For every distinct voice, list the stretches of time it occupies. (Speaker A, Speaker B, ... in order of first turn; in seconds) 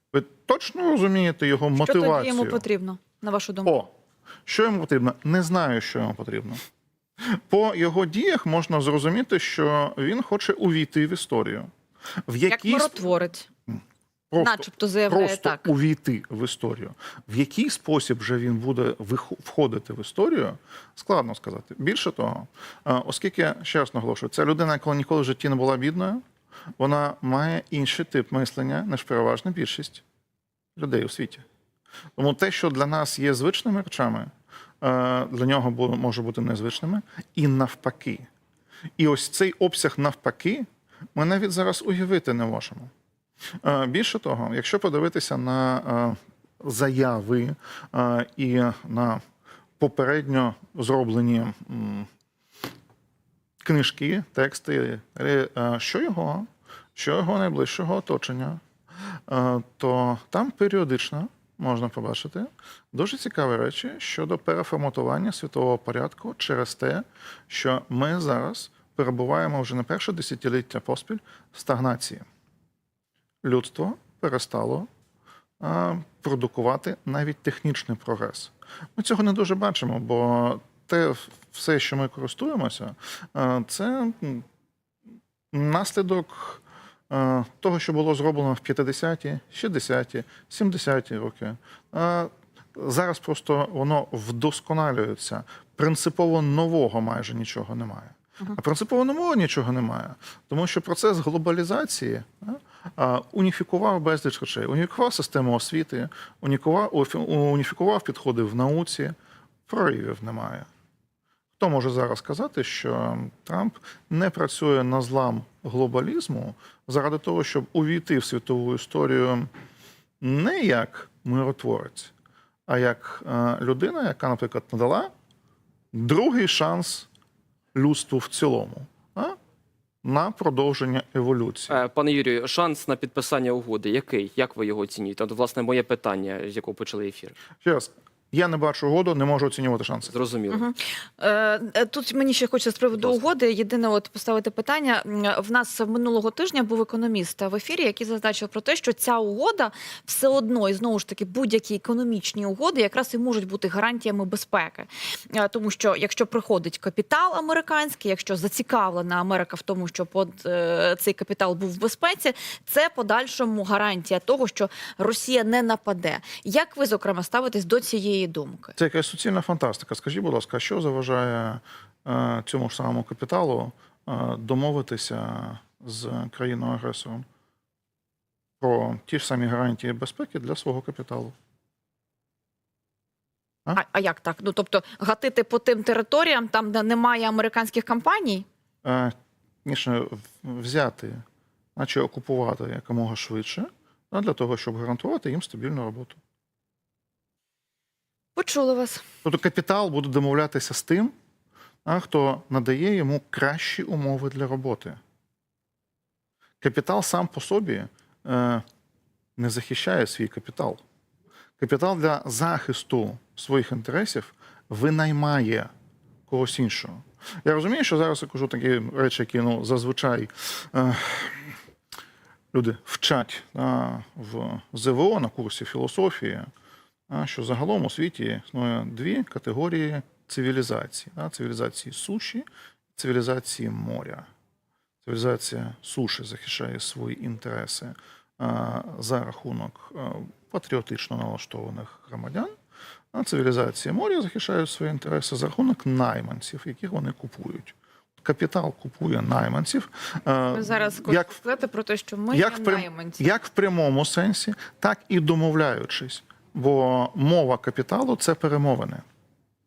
Speaker A: 0.1-2.6, 3.6-3.9, 4.5-6.6, 7.3-11.7, 12.3-12.9, 14.3-26.2, 26.8-30.0, 30.8-31.4, 32.2-38.3, 39.0-42.9, 43.6-49.2, 49.8-52.1, 53.6-58.6, 59.3-72.3, 73.4-74.9, 75.6-84.4, 85.5-109.2, 109.7-110.7, 111.6-119.5, 120.2-122.1, 122.7-125.1, 125.9-127.1, 127.8-129.4, 130.0-131.8, 137.6-140.1, 168.8-177.2, 178.6-181.3, 188.8-189.1, 189.7-191.2, 191.8-196.2, 199.2-201.1, 201.8-205.0, 206.6-208.6, 209.4-210.8, 211.6-215.7, 216.3-221.6, 222.5-226.5, 227.1-234.3, 235.1-242.5, 243.1-251.4, 252.3-259.0
Speaker B: 1.8-3.9, 12.5-13.5, 14.4-15.7, 140.5-168.8, 183.7-188.5, 198.4-199.0, 250.5-253.3
Speaker C: 131.7-137.4, 140.1-140.7